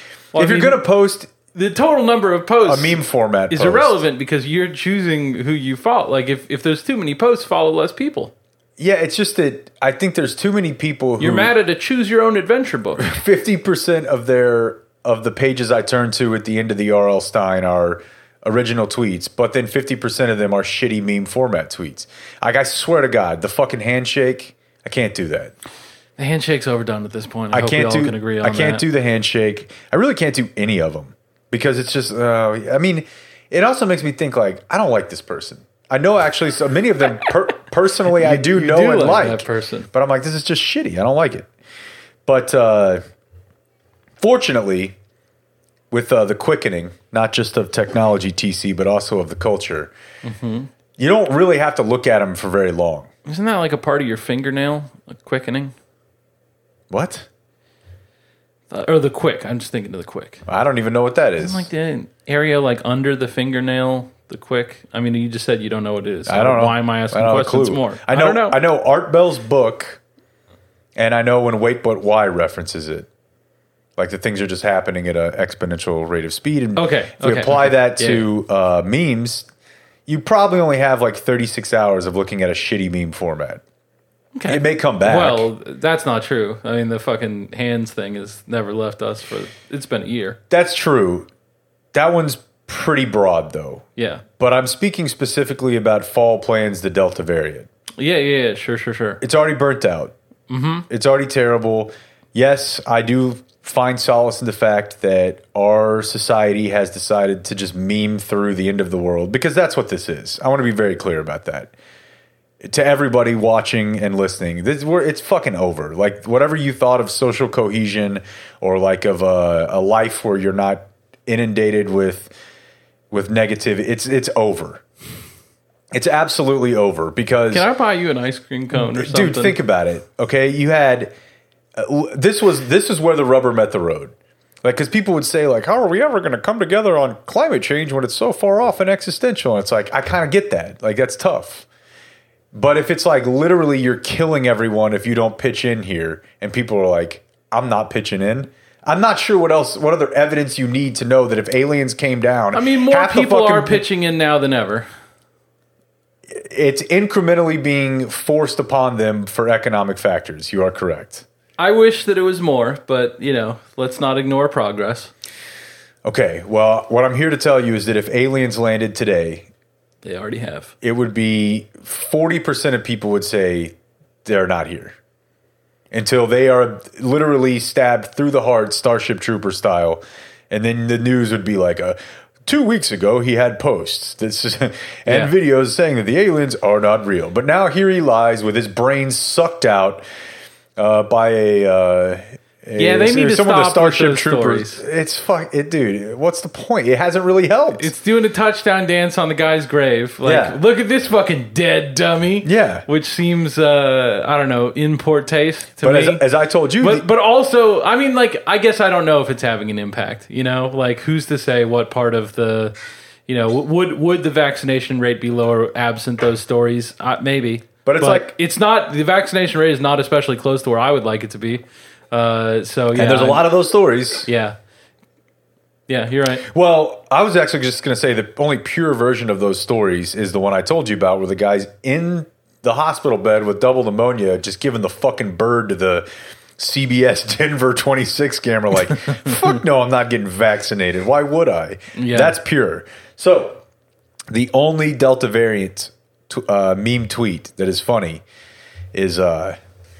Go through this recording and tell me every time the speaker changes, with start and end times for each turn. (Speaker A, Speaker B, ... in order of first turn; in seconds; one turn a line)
Speaker A: 0.3-0.8
Speaker B: 0.3-1.3
Speaker A: 1.5-8.3
Speaker B: 2.6-4.0
Speaker B: 8.8-11.5
Speaker A: 11.2-13.1
Speaker B: 13.0-25.5
Speaker A: 26.2-28.8
Speaker B: 27.5-41.5
Speaker A: 38.1-39.9
Speaker B: 42.3-43.0
Speaker B: 44.2-45.0
Speaker B: 45.9-49.9
Speaker A: 50.2-50.7
Speaker B: 51.0-53.1
Speaker A: 53.3-55.8
Speaker B: 56.9-57.3
Speaker A: 58.7-60.4
Speaker B: 60.5-61.7
Speaker A: 61.4-68.6
Speaker B: 66.3-70.0
Speaker B: 71.0-73.1
Speaker B: 74.0-79.5
Speaker A: 76.8-78.3
Speaker B: 80.1-83.6
Speaker A: 84.4-90.4
Speaker B: 84.5-85.5
Speaker B: 90.5-91.3
Speaker B: 91.9-93.8
Speaker A: 94.0-94.2
Speaker B: 94.4-97.7
Speaker A: 98.0-99.2
Speaker B: 99.2-100.1
Speaker A: 100.5-100.9
Speaker B: 100.9-111.7
Speaker B: 112.6-122.3
Speaker B: 123.1-124.8
Speaker B: 125.9-127.7
Speaker A: 127.5-129.6
Speaker B: 128.7-131.1
Speaker B: 131.8-141.7
Speaker B: 142.5-153.8
Speaker A: 152.5-154.9
Speaker B: 156.3-161.2
Speaker A: 161.6-165.1
Speaker B: 166.0-169.5
Speaker A: 170.0-170.7
Speaker B: 170.8-175.0
Speaker B: 175.9-190.1
Speaker A: 185.1-185.3
Speaker B: 190.8-197.9
Speaker A: 192.8-194.8
Speaker A: 197.8-206.2
Speaker B: 200.2-200.6
Speaker B: 202.4-202.9
Speaker B: 205.8-207.1
Speaker A: 206.8-212.7
Speaker A: 213.3-223.5
Speaker B: 217.8-218.3
Speaker B: 222.9-224.3
Speaker A: 224.2-224.6
Speaker A: 225.9-226.5
Speaker B: 226.5-236.1
Speaker B: 236.6-243.6
Speaker A: 242.0-242.3
Speaker B: 244.3-248.2
Speaker B: 248.9-249.6